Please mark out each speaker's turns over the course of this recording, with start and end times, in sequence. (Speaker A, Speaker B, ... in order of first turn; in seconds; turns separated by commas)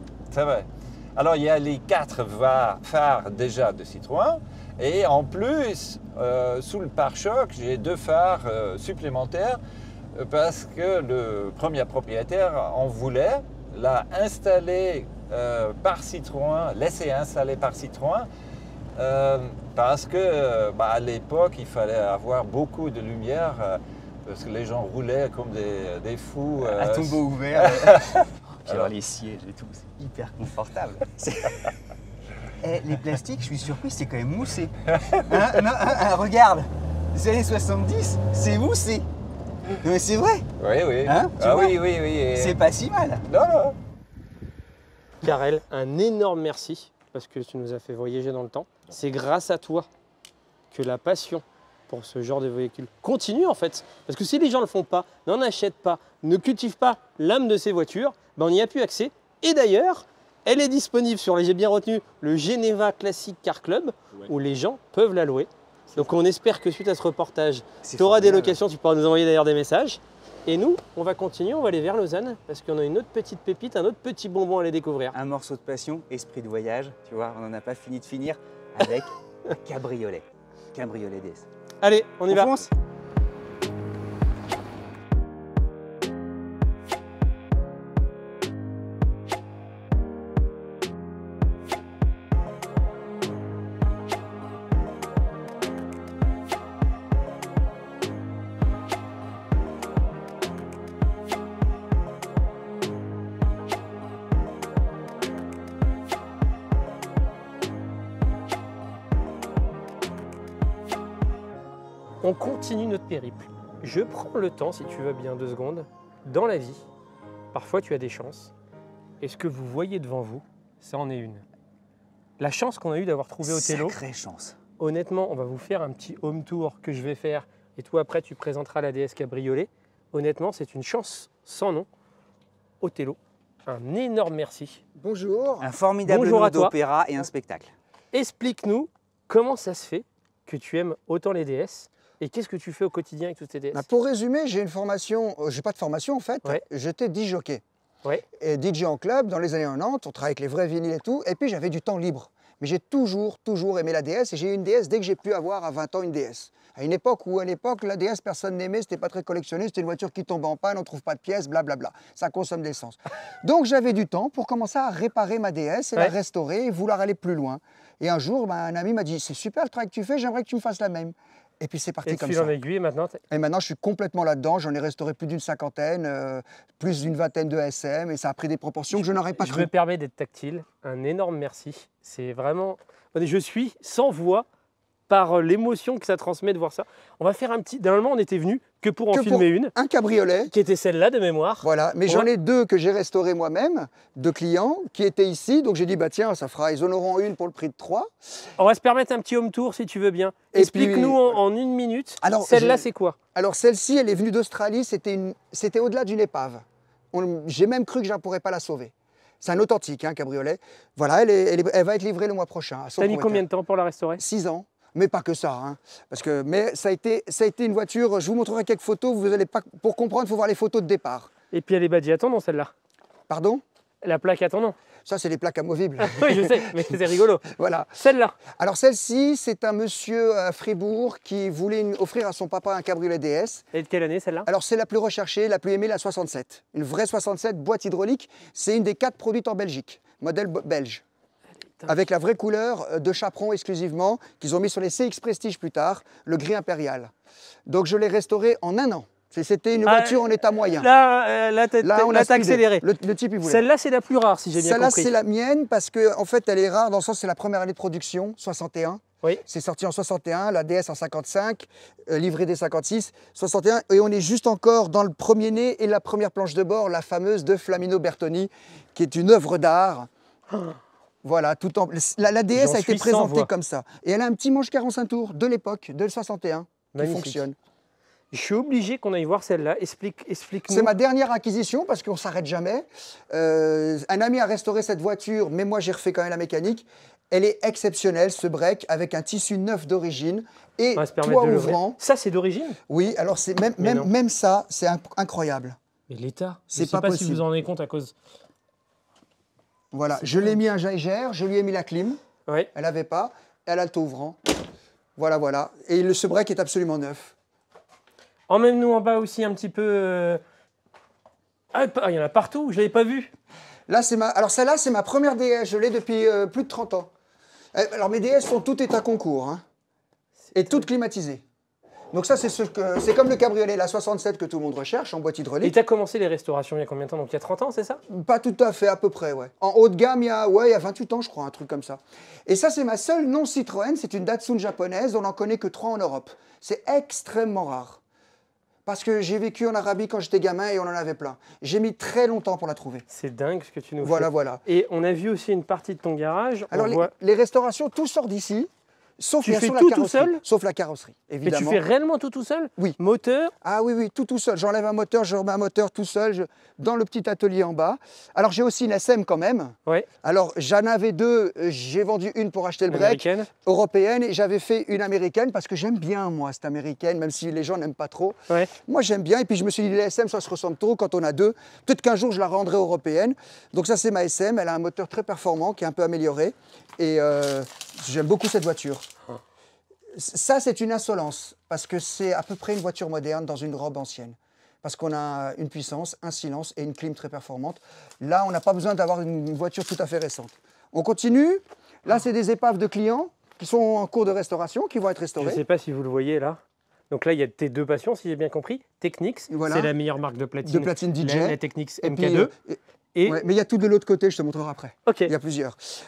Speaker A: 0.3-9.6, Speaker A: 10.1-18.3, Speaker A: 19.0-28.9, Speaker B: 26.6-31.8, Speaker B: 32.6-39.1, Speaker A: 34.9-35.6, Speaker B: 39.8-40.5, Speaker A: 40.6-42.6, Speaker B: 41.0-41.8, Speaker B: 42.3-43.2, Speaker A: 43.3-43.8, Speaker C: 45.2-49.9, Speaker C: 50.7-75.2, Speaker B: 67.8-68.6, Speaker B: 75.1-81.5, Speaker C: 81.8-82.6, Speaker B: 82.3-82.7, Speaker C: 112.2-116.8, Speaker C: 117.5-118.5, Speaker C: 119.2-121.4, Speaker C: 122.4-124.0, Speaker B: 123.4-124.6, Speaker C: 124.8-131.9, Speaker C: 132.8-134.8, Speaker D: 134.9-135.7, Speaker B: 135.6-137.7, Speaker C: 136.1-136.7, Speaker C: 138.1-143.8, Speaker D: 143.7-147.6, Speaker D: 148.4-172.5, Speaker C: 172.0-173.2, Speaker D: 173.3-179.7, Speaker C: 179.4-184.4, Speaker C: 185.1-189.7, Speaker D: 189.1-190.5, Speaker C: 190.5-192.3, Speaker D: 191.6-198.1, Speaker C: 198.6-203.2, Speaker D: 200.5-201.4, Speaker D: 202.2-213.4, Speaker C: 213.0-214.2, Speaker D: 214.2-221.3, Speaker C: 221.5-222.7, Speaker D: 223.3-223.6, Speaker C: 224.0-224.8, Speaker D: 225.1-226.5, Speaker C: 226.0-228.4, Speaker D: 227.5-227.9, Speaker D: 228.5-233.7, Speaker C: 233.7-234.5, Speaker D: 234.5-241.0, Speaker D: 241.8-247.1, Speaker D: 247.7-250.9, Speaker C: 249.8-252.8, Speaker D: 251.8-253.6, Speaker C: 253.4-255.1, Speaker D: 254.5-270.1, Speaker C: 270.5-270.8, Speaker D: 271.2-277.6, Speaker C: 272.5-273.5, Speaker C: 276.9-277.4, Speaker C: 278.3-280.9, Speaker D: 280.7-292.0, Speaker C: 290.9-292.8, Speaker D: 292.9-295.8, Speaker C: 293.8-294.1, Speaker C: 296.1-298.1, Speaker D: 296.7-297.4, Speaker D: 299.9-302.2, Speaker C: 300.2-300.6, Speaker D: 302.7-304.4, Speaker D: 305.2-307.3, Speaker C: 308.5-310.4, Speaker C: 311.7-313.3, Speaker D: 313.9-317.1, Speaker D: 317.7-319.6, Speaker C: 320.5-320.8, Speaker D: 320.5-321.4, Speaker D: 322.1-325.7, Speaker C: 325.6-328.0, Speaker D: 328.1-338.0, Speaker D: 338.9-343.0, Speaker C: 343.1-347.1, Speaker D: 344.0-344.6, Speaker D: 346.7-351.8, Speaker C: 349.4-350.4, Speaker C: 351.4-353.5, Speaker D: 353.6-379.1, Speaker C: 362.9-363.5, Speaker D: 380.1-395.6, Speaker C: 395.4-396.6, Speaker C: 397.1-402.5, Speaker D: 399.5-399.9, Speaker D: 400.6-405.8, Speaker C: 403.1-403.4, Speaker C: 405.1-405.3